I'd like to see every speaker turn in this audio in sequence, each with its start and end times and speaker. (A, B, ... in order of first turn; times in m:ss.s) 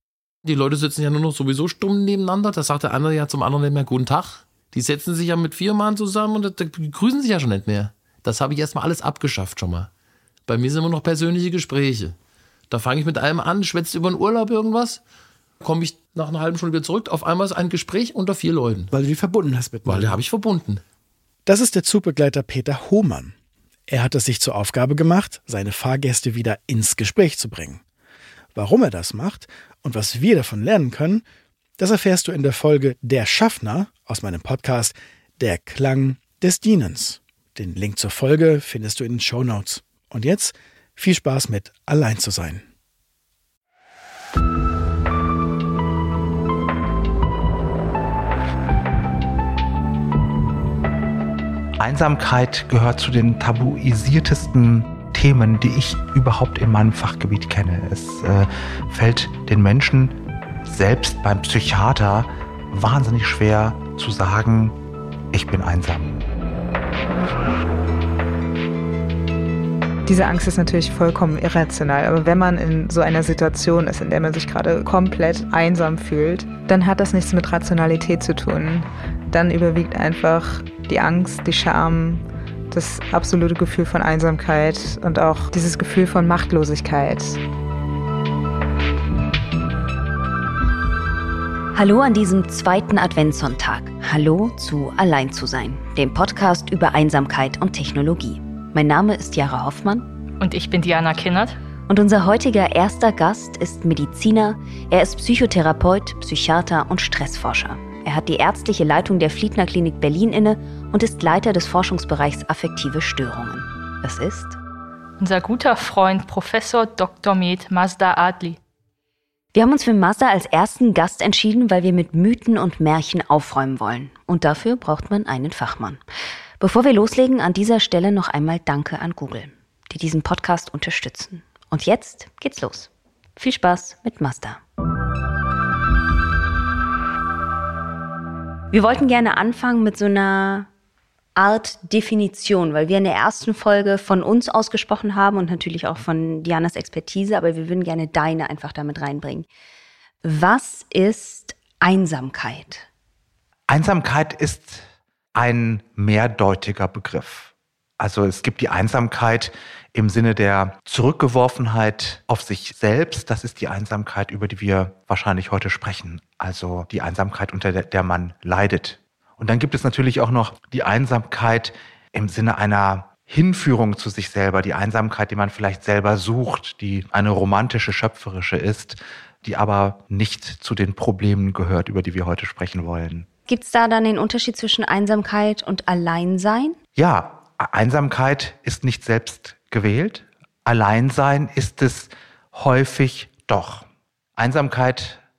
0:00.4-0:09.9 A
0:10.5-0:12.2 A
0:12.7-0:15.0 A
0:15.6-0:18.9 A
0:18.9-0:20.2 B
0:19.8-0:20.8 A
0:21.4-0:23.3 B
0:23.9-0:27.8 B
0:28.5-0:31.2 B
0:31.8-0:42.6 B
0:51.8-1:04.7 C
1:05.3-1:06.2 C
1:10.0-1:27.4 D
1:31.7-1:40.1 E
1:40.4-1:41.6 F
1:41.9-1:54.6 E
1:55.2-1:58.6 F
1:59.5-2:06.0 E
2:06.6-2:14.6 E
2:18.7-2:20.7 E
2:21.4-2:29.5 E
2:30.2-2:32.9 E
2:33.7-3:03.2 C
3:03.5-3:06.8 E
3:07.0-3:15.2 C